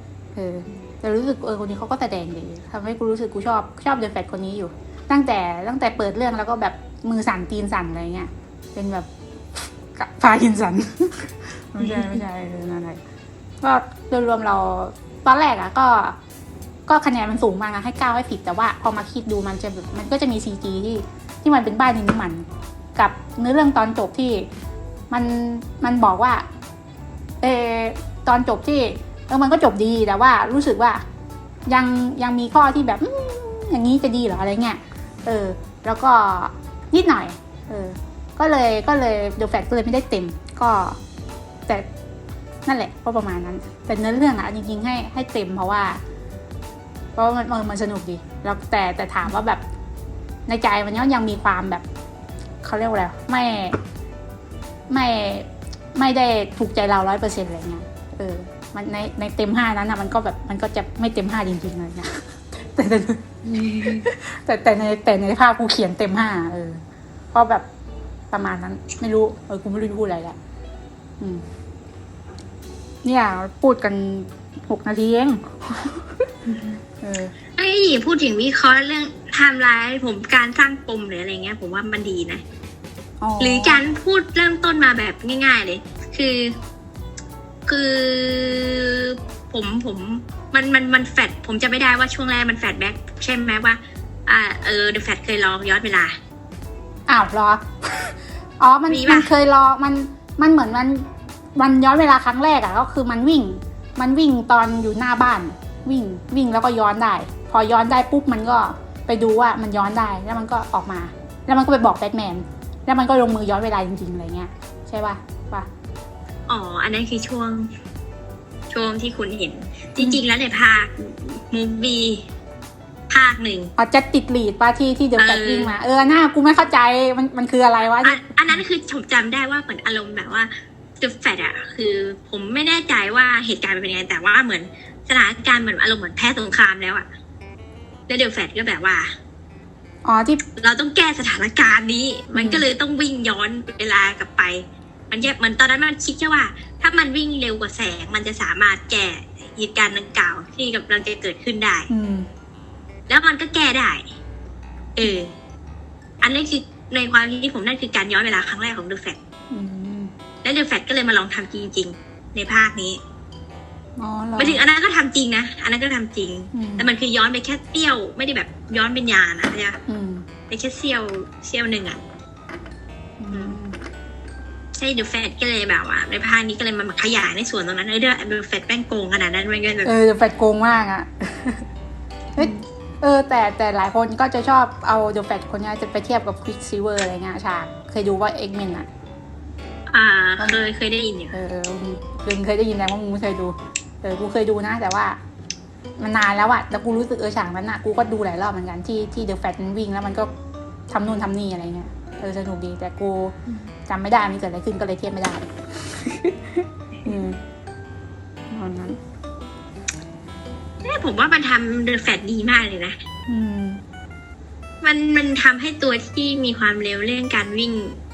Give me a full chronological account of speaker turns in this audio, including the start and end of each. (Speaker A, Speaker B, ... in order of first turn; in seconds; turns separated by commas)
Speaker A: 0.3-13.0, Speaker B: 11.8-12.2, Speaker A: 13.6-16.2, Speaker A: 16.9-24.5, Speaker A: 25.1-26.5, Speaker A: 27.4-31.0, Speaker A: 31.7-41.0, Speaker A: 42.7-46.0, Speaker A: 47.2-49.6, Speaker A: 50.5-51.9, Speaker A: 52.6-53.8, Speaker A: 54.9-67.7, Speaker B: 63.5-64.1, Speaker A: 68.3-70.4, Speaker A: 73.0-76.1, Speaker A: 77.0-77.3, Speaker B: 77.6-82.4, Speaker A: 83.2-83.8, Speaker B: 83.4-86.5, Speaker B: 87.7-96.2, Speaker A: 97.1-115.7, Speaker B: 98.9-99.3, Speaker B: 116.5-117.7, Speaker B: 118.7-122.3, Speaker B: 123.1-123.7, Speaker A: 123.8-128.6, Speaker B: 125.2-125.7, Speaker B: 128.0-137.1, Speaker B: 138.1-139.1, Speaker A: 140.1-140.4, Speaker B: 140.6-151.9, Speaker A: 142.3-142.7, Speaker A: 151.9-152.3, Speaker B: 153.1-154.1, Speaker B: 155.0-155.3, Speaker B: 156.2-159.2, Speaker A: 159.5-160.1, Speaker B: 160.4-163.0, Speaker A: 164.0-164.6, Speaker B: 164.4-169.8, Speaker A: 166.5-166.9, Speaker A: 169.9-170.2, Speaker B: 170.5-172.0, Speaker A: 173.2-173.8, Speaker B: 173.3-173.6, Speaker B: 174.8-179.9, Speaker A: 179.8-181.6, Speaker A: 182.4-188.9, Speaker B: 189.9-191.3, Speaker A: 191.3-195.2, Speaker A: 196.0-200.3, Speaker A: 200.9-203.3, Speaker A: 203.9-207.4, Speaker A: 208.5-209.0, Speaker B: 210.8-213.0, Speaker A: 213.3-213.8, Speaker B: 214.8-218.0